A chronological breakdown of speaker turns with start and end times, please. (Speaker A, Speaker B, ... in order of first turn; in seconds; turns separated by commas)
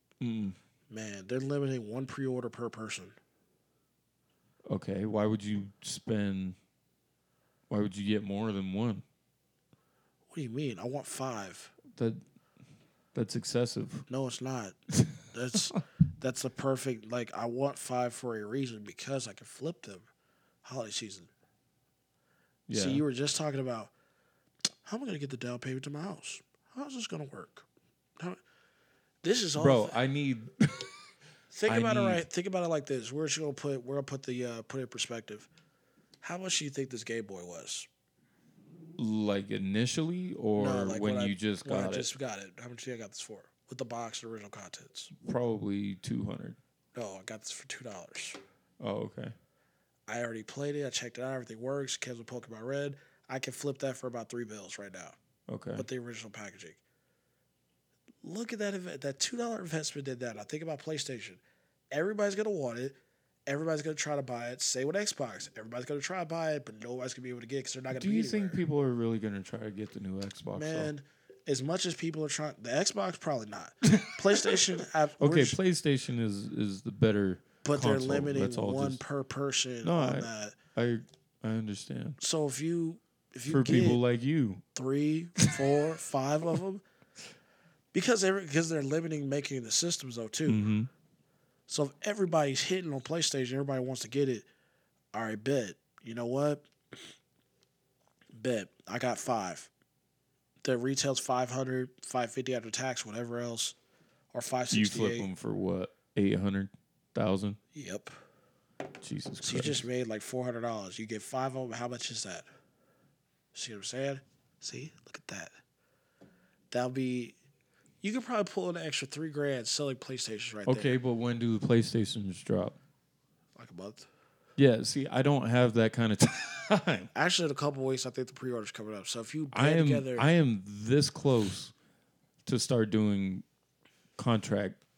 Speaker A: 0.2-0.6, Speaker B: 0.9-3.1, Speaker A: 4.7-6.6, Speaker A: 7.7-9.0, Speaker B: 10.3-11.7, Speaker A: 11.9-12.2, Speaker A: 13.1-14.0, Speaker B: 14.1-14.8, Speaker B: 15.3-20.1, Speaker B: 20.6-21.3, Speaker A: 22.7-23.0, Speaker B: 22.7-23.9, Speaker B: 24.8-27.6, Speaker B: 29.2-29.9, Speaker A: 29.5-30.9, Speaker B: 31.5-35.5, Speaker A: 31.6-32.2, Speaker B: 36.2-37.9, Speaker A: 39.0-42.1, Speaker B: 40.6-45.1, Speaker A: 45.1-46.6, Speaker B: 46.9-48.4, Speaker A: 48.8-49.4, Speaker B: 50.1-55.1, Speaker A: 55.5-55.9, Speaker B: 55.7-56.8, Speaker B: 58.2-63.0, Speaker B: 63.5-68.6, Speaker A: 67.9-70.9, Speaker B: 70.5-75.6, Speaker A: 73.8-74.6, Speaker A: 75.2-79.0, Speaker B: 77.6-80.5, Speaker A: 79.8-82.2, Speaker B: 82.2-84.0, Speaker A: 83.5-84.6, Speaker B: 84.7-86.8, Speaker B: 87.9-90.6, Speaker A: 90.5-90.9, Speaker B: 91.7-94.5, Speaker B: 95.1-96.7, Speaker B: 98.3-99.7, Speaker B: 100.6-103.7, Speaker B: 104.3-105.3, Speaker A: 104.7-107.6, Speaker B: 107.7-108.1, Speaker A: 109.0-109.8, Speaker B: 109.4-112.5, Speaker B: 113.5-115.5, Speaker B: 116.7-117.3, Speaker B: 118.0-121.0, Speaker A: 120.7-122.8, Speaker B: 123.5-124.0, Speaker A: 124.6-127.1, Speaker B: 127.1-130.3, Speaker A: 129.5-131.7, Speaker A: 132.4-133.4, Speaker A: 134.2-134.8